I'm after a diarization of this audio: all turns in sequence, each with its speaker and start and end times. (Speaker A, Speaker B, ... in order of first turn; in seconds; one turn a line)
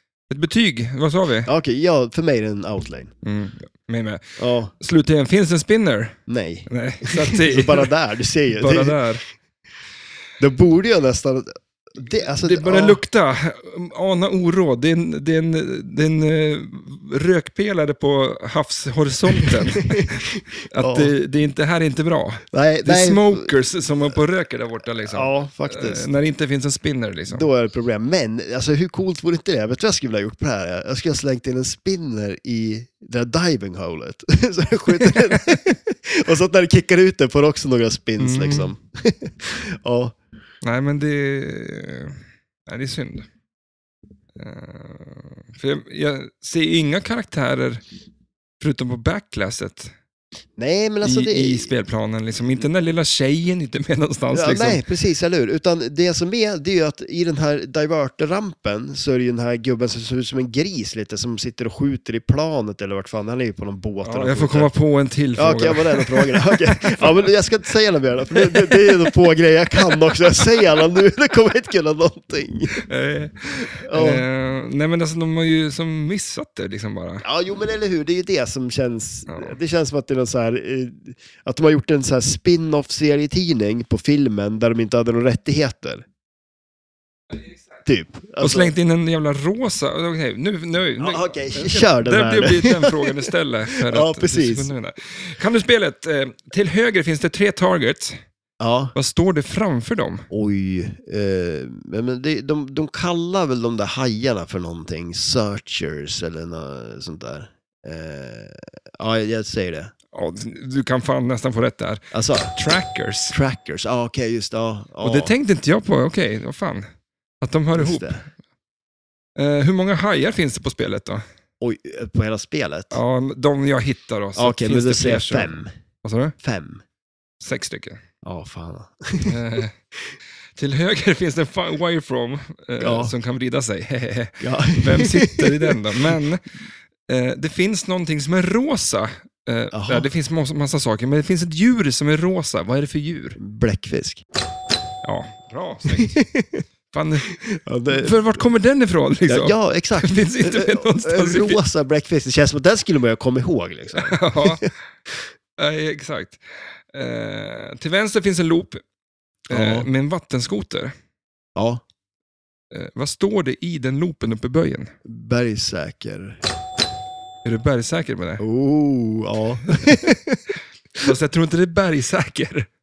Speaker A: 0.3-1.5
Speaker B: 1.4-3.1
Speaker A: 3.2-7.9
Speaker B: 4.4-4.7
Speaker B: 6.3-9.0
Speaker A: 8.5-9.2
Speaker B: 10.4-13.0
Speaker A: 12.2-27.5
Speaker B: 19.4-21.1
Speaker B: 22.5-23.5
Speaker B: 25.1-26.1
Speaker B: 27.3-40.1
Speaker A: 34.9-35.6
Speaker A: 38.2-38.7
Speaker A: 40.6-43.3
Speaker A: 44.3-47.8
Speaker A: 48.6-49.9
Speaker B: 50.6-51.7
Speaker A: 51.0-54.8
Speaker B: 54.3-64.7
Speaker A: 64.0-67.2
Speaker B: 65.3-72.8
Speaker A: 68.3-69.1
Speaker A: 69.8-70.6
Speaker A: 72.8-77.2
Speaker B: 73.5-74.2
Speaker B: 77.2-86.0
Speaker A: 79.3-79.6
Speaker A: 87.3-87.6
Speaker B: 87.8-88.7
Speaker A: 88.4-98.2
Speaker B: 91.0-94.7
Speaker B: 98.6-98.9
Speaker A: 98.9-100.3
Speaker B: 100.3-109.9
Speaker A: 110.1-112.0
Speaker B: 112.1-112.5
Speaker A: 112.5-113.3
Speaker B: 113.3-115.3
Speaker A: 115.0-116.8
Speaker A: 117.4-118.3
Speaker B: 117.7-118.2
Speaker A: 119.3-121.2
Speaker B: 121.6-123.0
Speaker A: 122.9-126.3
Speaker B: 124.3-125.7
Speaker B: 126.4-126.8
Speaker A: 127.4-128.0
Speaker B: 128.2-129.4
Speaker A: 129.2-129.7
Speaker A: 130.6-136.5
Speaker B: 132.8-133.1
Speaker B: 134.4-136.2
Speaker A: 137.1-143.4
Speaker B: 139.7-140.1
Speaker B: 143.4-144.2
Speaker A: 145.0-146.2
Speaker B: 145.8-146.6
Speaker A: 146.9-147.4
Speaker B: 147.3-148.2
Speaker A: 147.9-151.6
Speaker B: 149.2-154.7
Speaker A: 153.9-154.6
Speaker A: 155.6-158.8
Speaker A: 159.5-160.9
Speaker B: 159.5-159.9
Speaker B: 161.6-161.8
Speaker A: 162.7-164.9
Speaker B: 165.0-166.4
Speaker A: 167.4-168.4
Speaker B: 168.4-171.1
Speaker A: 169.7-170.0
Speaker A: 171.0-172.7